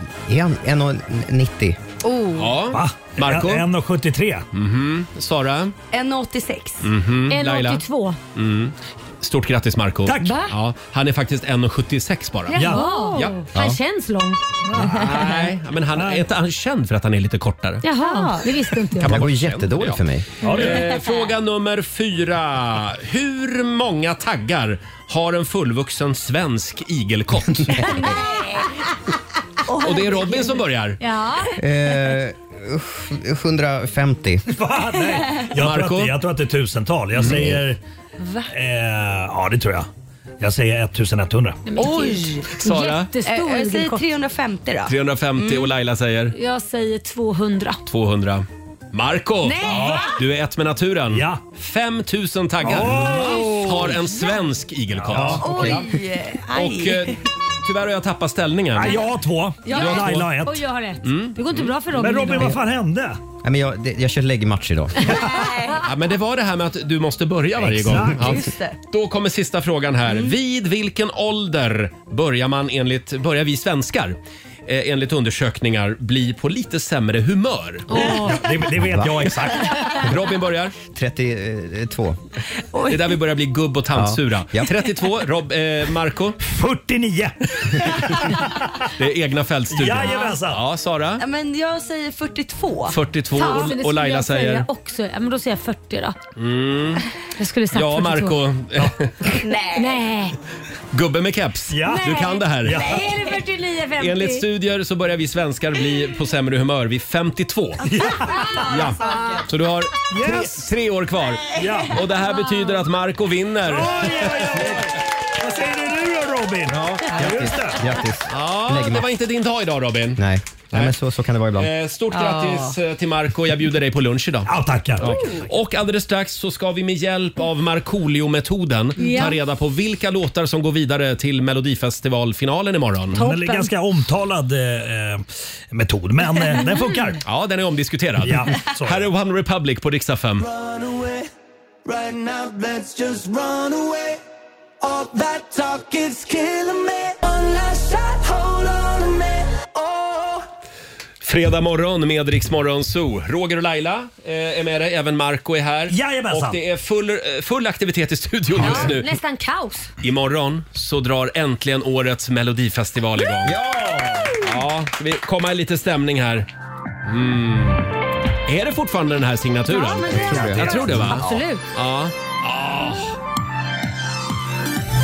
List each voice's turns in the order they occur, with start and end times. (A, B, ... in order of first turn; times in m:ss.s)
0:00.2-0:01.8 A
0:02.0-0:02.5 B
0:02.4-0:03.7 C
0:02.7-0:04.4 D
0:04.5-0:05.8 C
0:05.9-0:06.9 B
0:06.8-0:07.8 C
0:07.3-0:08.2 E
0:08.4-0:13.4 C
0:10.1-0:10.4 D
0:12.5-0:12.9 D
0:12.5-0:15.5 E
0:12.8-0:13.2 B
0:13.5-0:13.8 A
0:14.7-0:15.1 D
0:14.8-0:17.9 C
0:15.9-0:16.2 D
0:17.8-0:19.2 E
0:18.0-0:18.5 B
0:19.0-0:28.1 C
0:19.0-0:20.3 A
0:20.4-0:20.7 D
0:20.5-0:20.9 E
0:27.8-0:28.2 E
0:28.2-0:28.6 B
0:29.7-0:30.6 B
0:29.8-0:31.0 C
0:31.0-0:31.6 E
0:31.6-0:34.4 A
0:34.5-0:37.8 D
0:35.5-0:36.2 C
0:38.5-0:39.9 D
0:40.4-0:41.6 D
0:41.7-0:44.1 E
0:41.8-0:42.5 B
0:42.5-0:43.2 C
0:43.2-0:45.7 B
0:44.9-0:46.4 C
0:46.3-0:47.8 E
0:47.9-0:55.9 C
0:49.5-0:50.0 E
0:49.6-0:50.0 B
0:49.7-0:50.0 D
0:51.1-0:51.4 D
0:52.6-0:54.0 D
0:55.0-0:55.6 D
0:55.1-0:55.8 A
0:55.3-0:57.2 B
0:56.5-0:59.0 C
0:58.8-1:00.6 D
0:59.6-1:00.0 B
0:59.7-1:02.6 E
0:59.7-1:00.3 C
1:01.0-1:01.8 C
1:01.9-1:03.2 D
1:03.4-1:05.2 A
1:05.1-1:05.3 D
1:05.3-1:05.8 B
1:05.8-1:18.2 C
1:07.8-1:08.3 D
1:08.2-1:08.8 B
1:17.9-1:18.4 E
1:18.0-1:20.0 D
1:18.0-1:18.5 B
1:18.9-1:19.4 A
1:19.6-1:20.8 C
1:20.9-1:22.2 A
1:22.7-1:23.2 B
1:22.9-1:26.4 C
1:23.9-1:24.7 A
1:26.5-1:28.8 D
1:29.0-1:31.2 C
1:29.7-1:30.6 D
1:31.2-1:33.6 B
1:32.9-1:34.7 C
1:33.3-1:36.2 E
1:36.4-1:37.0 C
1:37.4-1:38.4 E
1:37.7-1:39.4 C
1:39.4-1:40.0 B
1:39.8-1:40.4 E
1:40.9-1:43.0 C
1:41.7-1:43.1 D
1:41.8-1:44.5 E
1:44.0-1:48.0 C
1:47.9-1:48.5 D
1:48.3-1:49.4 E
1:48.6-1:54.9 C
1:48.8-1:49.4 B
1:50.1-1:50.7 D
1:51.6-1:52.0 D
1:51.6-1:51.9 B
1:52.2-1:52.8 E
1:53.7-1:57.9 D
1:56.7-1:59.1 A
1:58.3-2:01.0 C
2:00.2-2:01.7 A
2:01.6-2:13.2 C
2:02.1-2:02.8 B
2:04.5-2:05.3 D
2:09.0-2:09.4 E
2:13.1-2:13.7 E
2:13.2-2:17.2 D
2:16.5-2:17.2 E
2:17.2-2:20.5 C
2:18.2-2:19.1 D
2:20.4-2:21.3 F
2:21.9-2:24.2 F
2:24.8-2:30.4 F
2:31.2-2:39.1 C
2:35.9-2:36.6 D
2:38.6-2:39.9 E
2:40.0-2:43.6 C
2:43.4-2:44.4 A
2:44.4-2:46.5 C
2:47.0-2:47.9 C
2:48.5-2:53.1 C
2:49.7-2:51.6 E
2:50.1-2:51.5 A